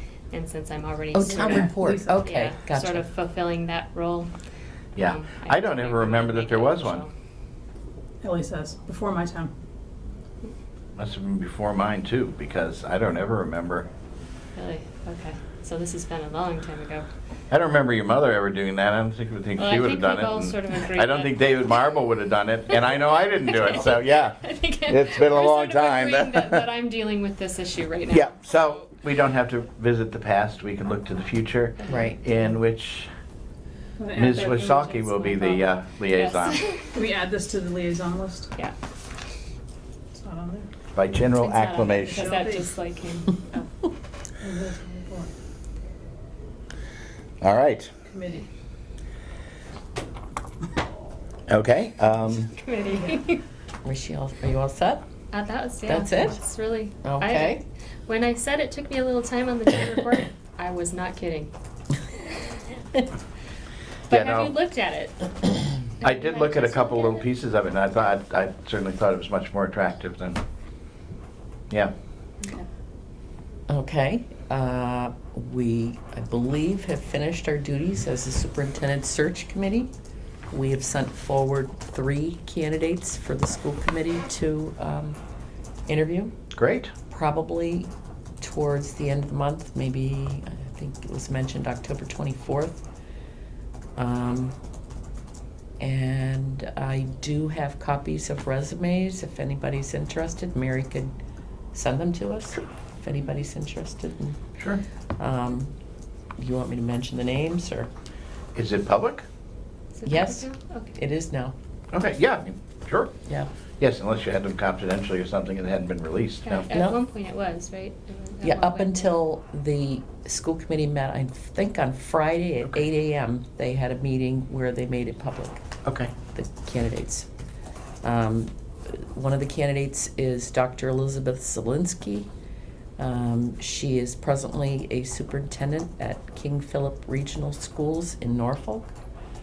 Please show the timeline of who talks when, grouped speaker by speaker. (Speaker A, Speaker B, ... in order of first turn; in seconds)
Speaker A: 0.3-4.3, 5.0-7.1, 14.6-17.1, 19.6-21.7, 23.4-28.8, 31.8-32.1, 34.2-37.0, 41.4-43.6, 52.5-53.4, 55.3-61.5, 64.1-67.3, 72.4-72.7, 110.0-111.0, 116.5-119.2
Speaker B: 1.1-3.1, 31.9-32.2, 53.8-55.1, 55.9-56.4, 57.0-57.6, 73.7-79.9, 80.5-85.2, 85.9-86.3, 87.1-87.9, 88.4-92.8, 94.0-94.6, 95.8-101.1, 101.7-104.4, 105.2-105.7, 106.4-107.9, 110.1-111.5, 116.7-117.0, 118.4-125.7, 126.3-127.3, 128.0-132.3, 133.0-138.9
Speaker C: 1.5-2.2, 8.2-9.5, 34.0-34.4, 36.9-38.5, 40.1-40.7, 42.0-42.7, 44.4-45.3, 48.0-48.5
Speaker D: 5.0-7.0, 11.0-13.9, 17.5-26.6, 28.1-33.1, 34.2-36.6, 41.0-42.2, 47.4-47.9, 51.5-52.5, 64.1-64.5, 66.0-70.4, 86.5-86.9, 104.6-104.8, 108.5-109.3, 111.9-113.1, 113.8-116.7, 125.9-126.1